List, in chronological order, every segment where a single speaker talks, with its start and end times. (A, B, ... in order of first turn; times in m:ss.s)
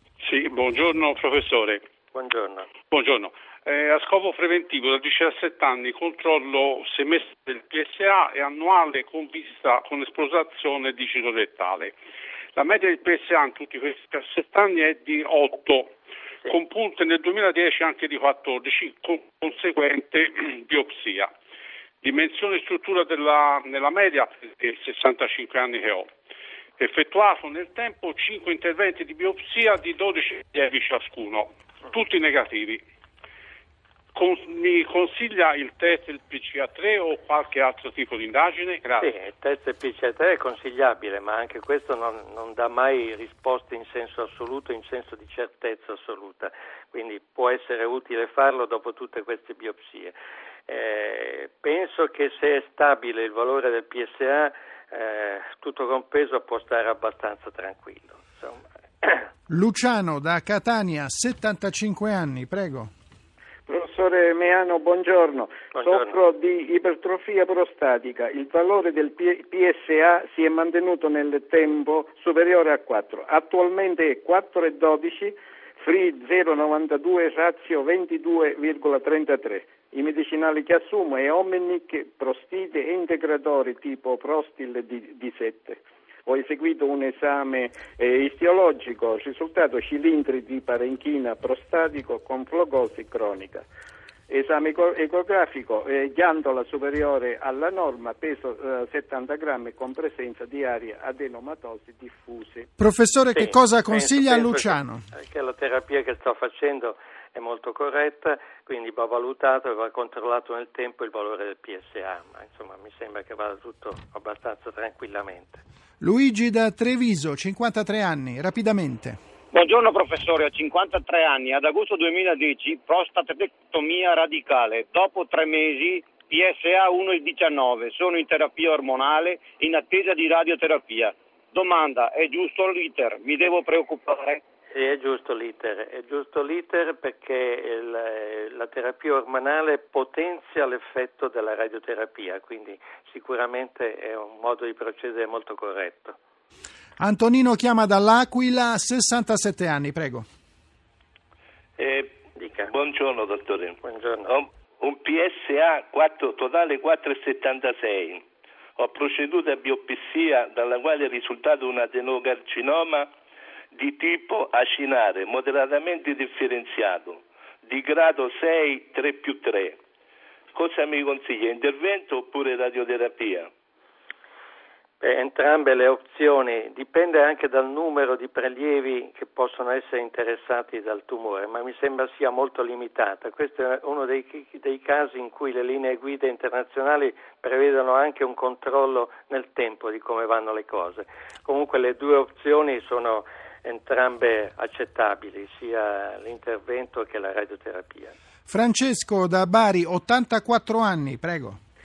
0:00.2-0:01.8 A
0:02.1-0:02.7 B
0:02.9-0:11.9 A
0:12.6-0:15.9 A
0:16.5-0:21.3 A
0:22.0-0:26.1 A
0:26.8-0:32.8 A
0:34.2-0:39.1 A
0:39.0-0:50.1 B
0:50.7-0:59.3 B
0:59.5-1:02.9 C
1:03.7-1:33.6 D
1:05.7-1:06.1 B
1:34.3-1:42.7 D
1:42.8-1:45.0 C
1:43.3-1:55.6 B
1:56.0-1:59.2 C
1:59.5-2:14.4 E
2:14.7-2:26.2 B
2:27.0-2:30.3 C
2:31.8-2:38.2 F
2:32.4-2:32.7 B
2:33.8-2:34.3 B
2:38.8-2:43.1 F
2:43.7-2:49.8 F
2:50.5-2:53.5 F
2:55.0-3:18.1 B
3:18.5-3:21.6 C